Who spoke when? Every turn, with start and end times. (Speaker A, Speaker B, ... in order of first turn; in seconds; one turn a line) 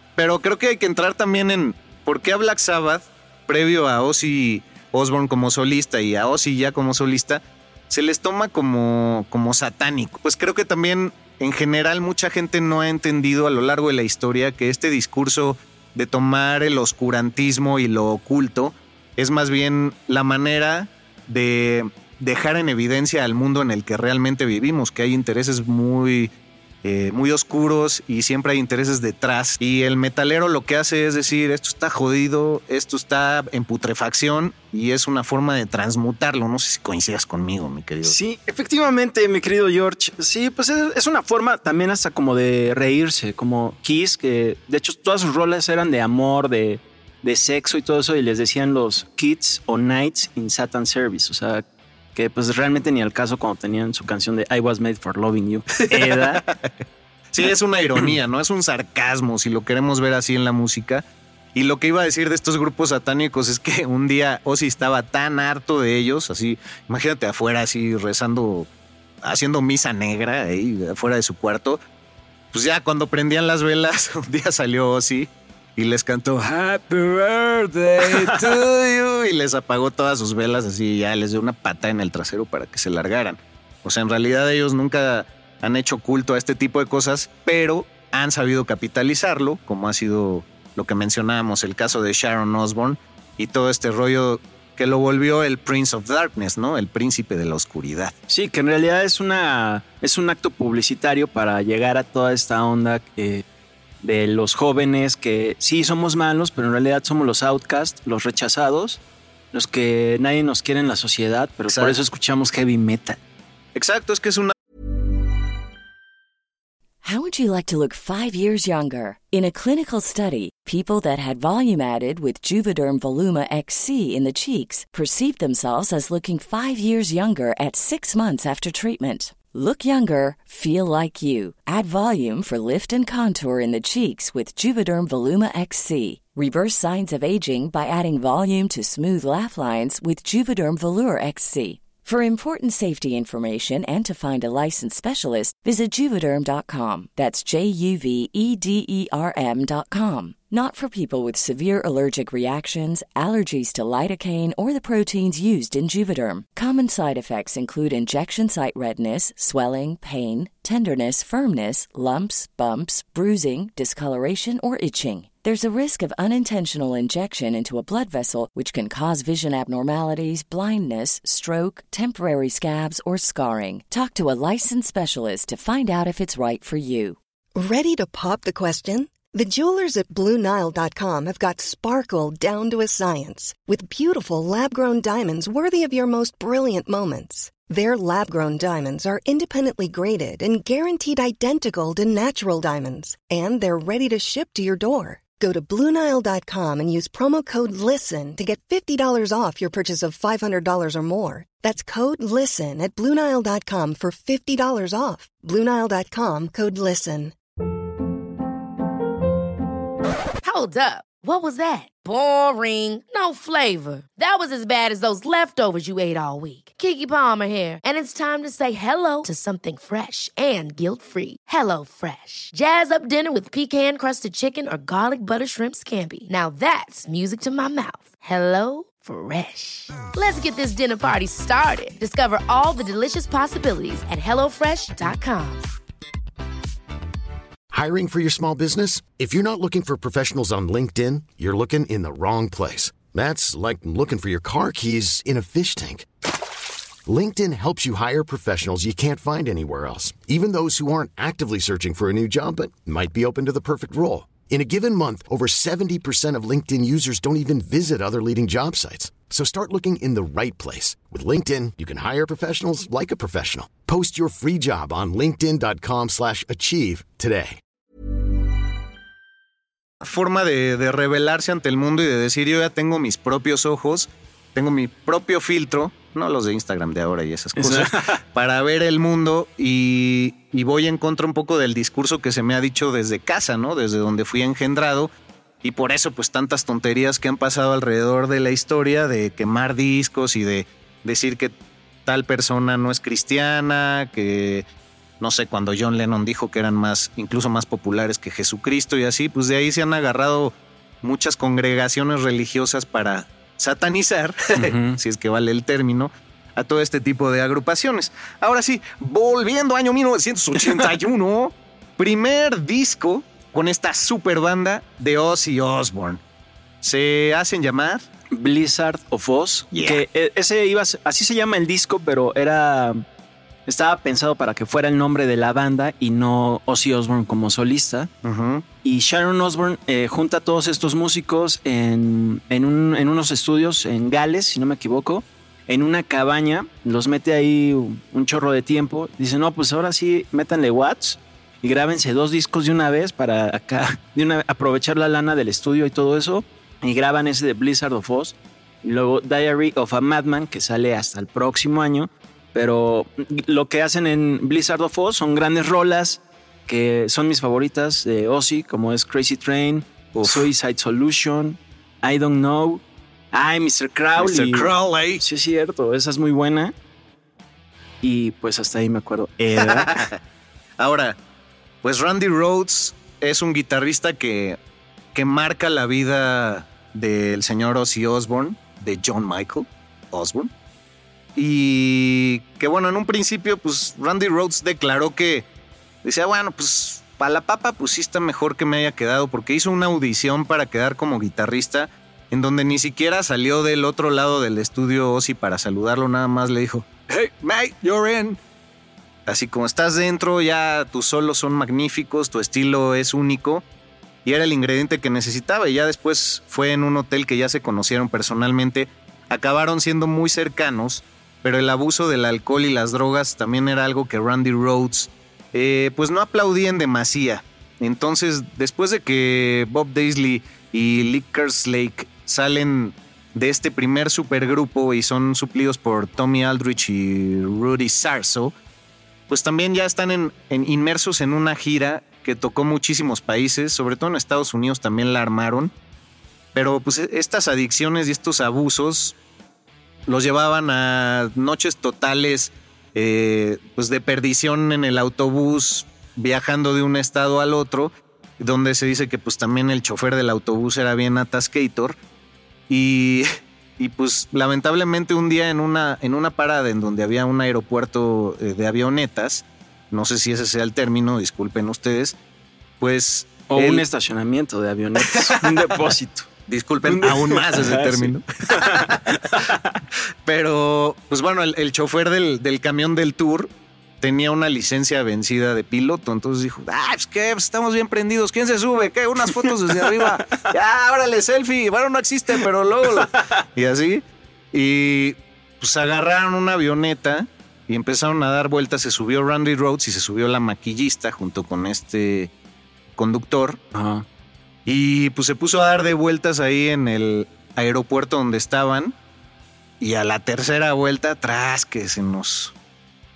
Speaker A: 0.2-26.3
Speaker A: 26.8-38.1
Speaker B: 38.0-56.5
Speaker A: 55.8-56.7
Speaker A: 57.3-68.7
Speaker A: 69.2-71.8
Speaker A: 72.5-98.1
Speaker B: 78.0-78.4
Speaker B: 98.3-103.4
Speaker B: 104.0-109.0
Speaker B: 109.5-113.2
Speaker A: 111.7-112.0
Speaker A: 113.7-114.5
Speaker C: 117.0-177.2
Speaker D: 177.6-207.3
Speaker E: 210.4-235.7
Speaker F: 237.7-246.1
Speaker F: 247.1-267.6
Speaker A: 270.0-285.1
Speaker B: 277.6-278.2
Speaker A: 285.6-291.5
Speaker A: 292.1-294.6
Speaker A: 295.2-316.2
Speaker B: 304.6-305.0
Speaker A: 316.8-318.0
Speaker B: 318.3-323.0
Speaker A: 319.7-320.0
Speaker B: 323.7-328.1
Speaker A: 328.2-328.6
Speaker B: 328.8-366.7
Speaker A: 360.1-360.5
Speaker A: 364.2-365.2
Speaker B: 368.0-370.0
Speaker A: 369.6-370.2
Speaker A: 370.8-371.1
Speaker A: 371.8-374.6
Speaker A: 375.1-380.5
Speaker A: 381.4-385.4
Speaker A: 386.0-398.4
Speaker A: 399.3-403.6
Speaker A: 404.2-428.5
Speaker A: 429.3-435.7
Speaker A: 436.5-439.1
Speaker A: 440.1-452.0
Speaker A: 452.7-453.3
Speaker A: 453.8-462.1
Speaker A: 462.8-463.8
Speaker B: 463.5-466.3
Speaker A: 465.2-465.6
Speaker A: 466.5-469.2
Speaker B: 466.9-469.8
Speaker A: 470.2-473.5
Speaker A: 474.0-492.3
Speaker B: 479.4-480.0
Speaker A: 492.9-493.6
Speaker B: 493.7-494.0
Speaker A: 494.6-498.9
Speaker A: 499.8-502.5